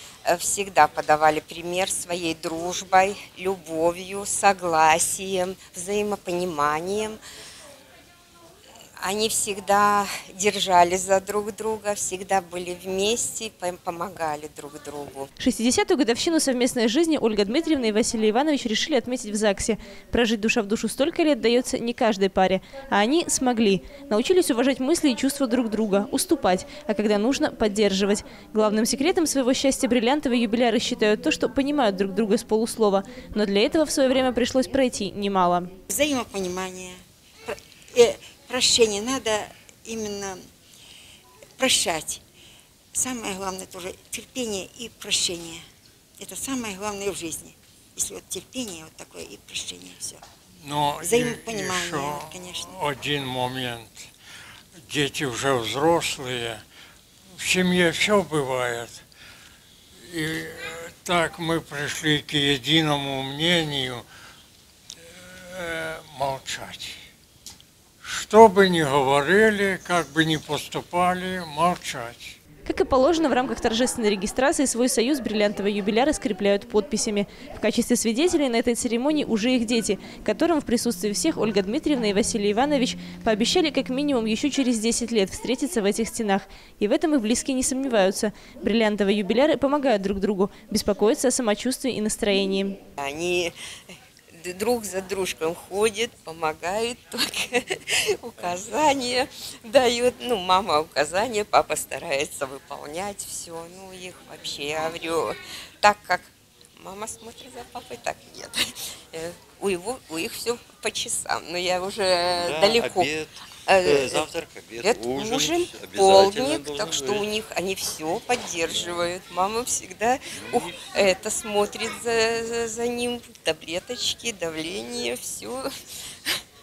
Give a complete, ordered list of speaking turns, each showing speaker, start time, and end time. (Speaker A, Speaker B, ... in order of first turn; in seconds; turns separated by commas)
Speaker A: 0.2-7.2, Speaker A: 9.0-15.3, Speaker B: 15.4-35.7, Speaker C: 35.9-40.4, Speaker C: 41.6-42.2, Speaker C: 42.9-45.6, Speaker C: 46.2-50.2, Speaker D: 50.6-54.1, Speaker C: 51.0-52.8, Speaker D: 54.9-56.6, Speaker D: 57.4-59.0, Speaker D: 60.1-64.0, Speaker D: 65.2-67.0, Speaker D: 68.0-72.4, Speaker B: 72.6-92.8, Speaker A: 93.0-93.5, Speaker A: 94.4-113.1, Speaker E: 112.3-117.3, Speaker A: 113.7-114.3, Speaker A: 114.8-125.7, Speaker E: 118.7-119.1, Speaker E: 120.3-121.0